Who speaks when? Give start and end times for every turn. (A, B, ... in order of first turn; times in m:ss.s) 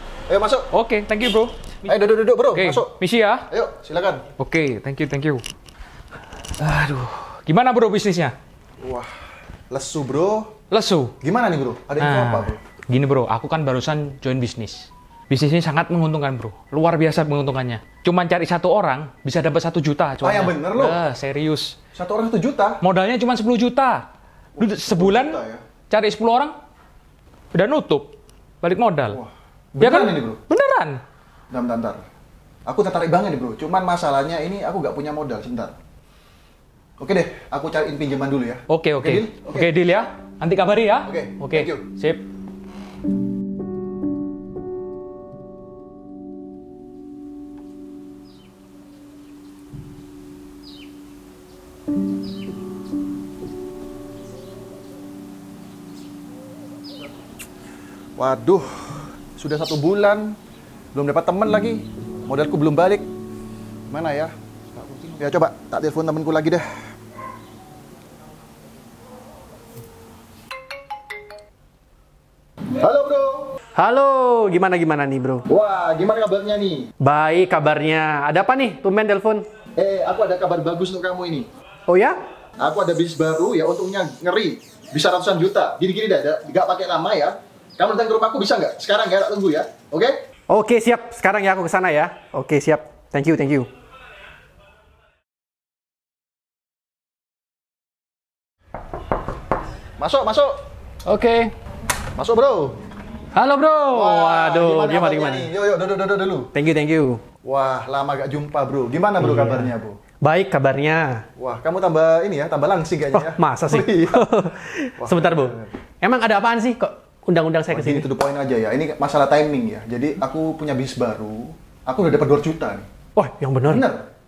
0:00.3-0:00.7 A
0:00.7-0:01.9 B
0:01.8-0:02.9 A
0:02.5-0:03.4 B
0:03.5-0:04.2 A
0:04.4-0:05.4 B
0:06.6-0:08.3 B
0:08.8-0:09.1 A
0:09.7-0:10.5 A
0:10.7-0:11.1 B
0:11.2-0:12.6 A
0:12.0-0:21.7 B
0:20.2-0:21.0 A
0:21.9-0:22.8 A
0:22.8-0:24.0 B
0:24.6-0:25.4 B
0:24.6-0:25.6 A
0:25.9-0:26.6 B
0:27.5-0:29.2 B
0:29.1-0:30.4 A
0:29.8-0:31.0 B
0:31.5-0:32.0 A
0:32.6-0:35.8 A
0:37.0-0:40.1 A
0:38.7-0:42.2 B
0:41.0-0:41.9 A
0:58.2-1:00.4 A
1:00.9-1:03.0 A
1:03.9-1:06.6 A
1:12.8-1:13.5 A
1:13.7-1:15.4 C
1:15.5-1:16.9 A
1:17.0-1:19.4 C
1:19.8-1:21.5 A
1:21.9-1:22.2 C
1:22.6-1:30.2 A
1:30.5-1:33.7 C
1:40.0-1:40.6 A
1:41.0-1:41.5 C
1:42.1-1:42.8 A
1:43.3-1:45.5 C
1:43.9-1:46.5 A
1:46.5-1:47.2 C
1:47.4-1:50.0 A
1:49.2-1:49.7 C
1:50.2-1:51.2 C
1:51.4-1:54.4 A
1:53.1-1:58.1 C
1:55.0-1:55.6 A
1:57.7-2:02.9 A
2:03.2-2:03.8 C
2:03.7-2:04.0 A